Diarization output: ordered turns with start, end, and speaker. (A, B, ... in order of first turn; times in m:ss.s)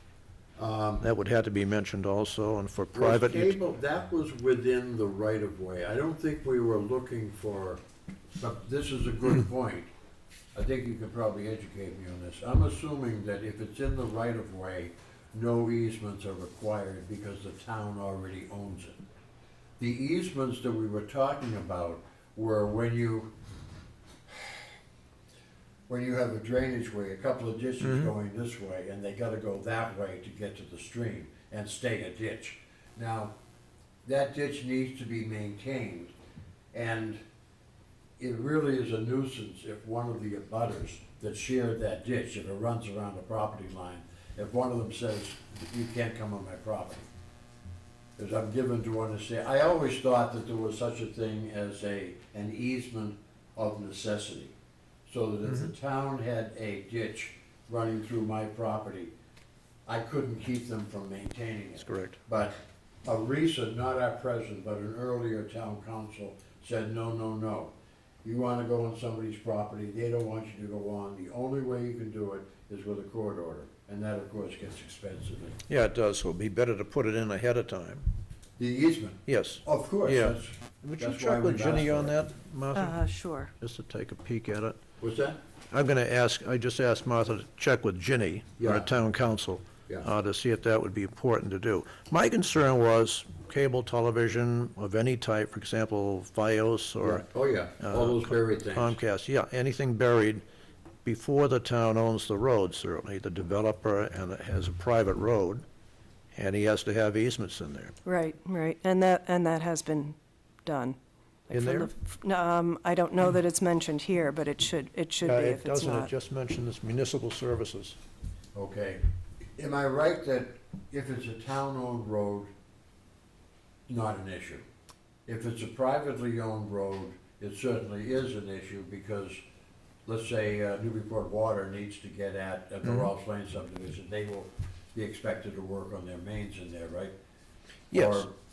0:00.6-0:01.0 A
0:01.0-0:03.6 B
0:02.9-0:07.8 A
0:08.4-0:09.9 A
0:10.5-0:19.0 A
0:19.8-0:23.3 A
0:25.9-0:33.3 A
0:27.8-0:28.1 B
0:34.0-0:36.1 A
0:36.7-0:37.2 A
0:38.2-0:47.1 A
0:48.2-0:54.5 A
0:55.1-0:59.1 A
0:59.9-1:07.7 A
1:01.8-1:02.2 B
1:08.2-1:15.6 A
1:15.7-1:18.0 B
1:18.6-1:22.2 A
1:19.3-1:23.0 B
1:22.7-1:23.5 C
1:23.6-1:24.8 B
1:25.0-1:25.4 A
1:25.7-1:37.3 B
1:28.6-1:28.9 A
1:37.0-1:39.0 A
1:37.8-1:40.4 B
1:41.0-1:45.6 B
1:46.4-1:48.0 B
1:48.0-1:51.0 C
1:51.5-1:56.1 C
1:51.5-1:51.9 B
1:55.2-1:58.0 B
1:58.6-1:59.0 A
1:59.6-2:02.5 A
2:03.9-2:04.6 A
2:05.3-2:09.4 A
2:10.1-2:17.1 A
2:12.8-2:13.1 B
2:17.9-2:18.3 B
2:17.9-2:18.3 A